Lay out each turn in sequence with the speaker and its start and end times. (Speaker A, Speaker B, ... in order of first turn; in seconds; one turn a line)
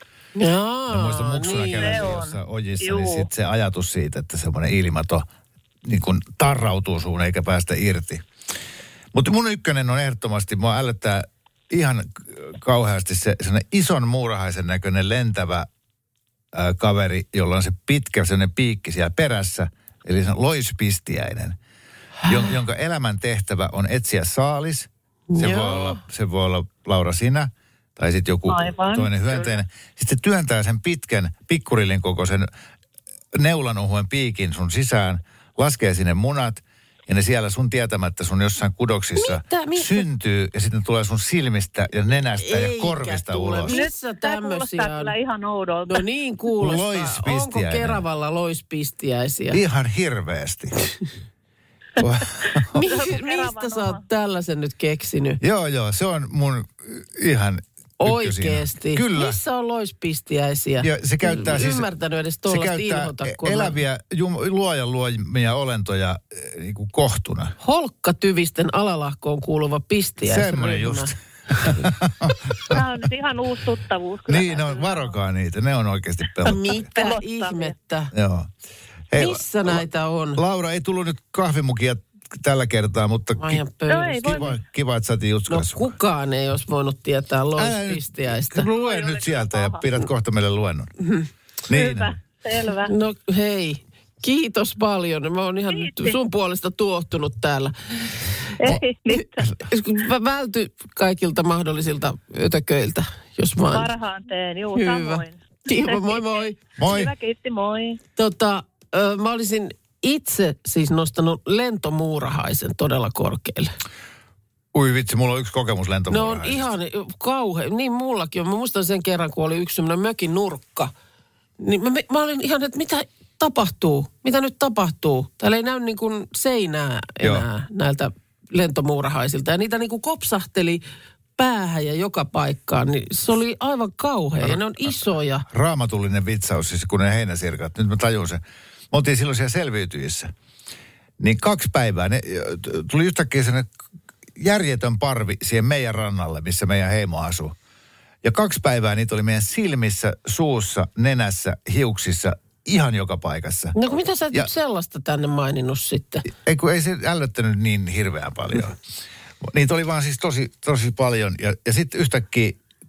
Speaker A: 0.4-2.1
Speaker B: 0.9-5.3
Speaker C: 1.8-3.3
Speaker B: 5.8-8.2
Speaker B: 9.1-15.7
Speaker B: 16.5-21.6
Speaker A: 22.2-22.5
Speaker B: 22.3-32.5
Speaker A: 25.3-26.0
Speaker C: 28.5-29.5
Speaker B: 33.4-43.8
Speaker A: 39.2-40.0
Speaker A: 42.4-45.1
Speaker C: 43.7-46.0
Speaker A: 45.9-49.6
Speaker B: 46.6-48.0
Speaker B: 49.5-50.9
Speaker B: 52.0-53.0
Speaker A: 52.7-55.4
Speaker C: 52.8-54.0
Speaker B: 55.4-59.4
Speaker A: 58.0-63.8
Speaker B: 60.8-61.9
Speaker B: 62.5-67.5
Speaker A: 67.6-71.9
Speaker B: 70.2-72.8
Speaker C: 72.7-75.1
Speaker B: 74.3-76.9
Speaker A: 76.4-78.1
Speaker C: 76.9-77.7
Speaker B: 78.1-78.5
Speaker B: 79.1-79.8
Speaker A: 79.1-80.4
Speaker B: 80.4-83.6
Speaker A: 83.4-84.6
Speaker C: 83.9-84.5
Speaker B: 84.2-86.0
Speaker A: 85.5-88.7
Speaker B: 87.6-90.9
Speaker C: 88.6-89.8
Speaker A: 91.0-91.3
Speaker B: 91.7-92.1
Speaker C: 91.7-92.9
Speaker A: 92.8-103.9
Speaker C: 95.7-96.2
Speaker C: 98.6-99.5
Speaker C: 103.7-108.0
Speaker A: 104.7-106.6
Speaker B: 106.8-107.1
Speaker A: 108.2-113.7
Speaker B: 114.7-116.7
Speaker A: 116.1-120.9
Speaker A: 121.6-130.8
Speaker A: 131.4-135.5
Speaker B: 134.5-134.9
Speaker B: 135.5-138.4
Speaker B: 138.9-140.3
Speaker B: 141.2-143.7
Speaker B: 144.4-147.6
Speaker B: 148.2-153.8
Speaker A: 153.8-156.3
Speaker B: 156.3-158.8
Speaker B: 159.4-162.6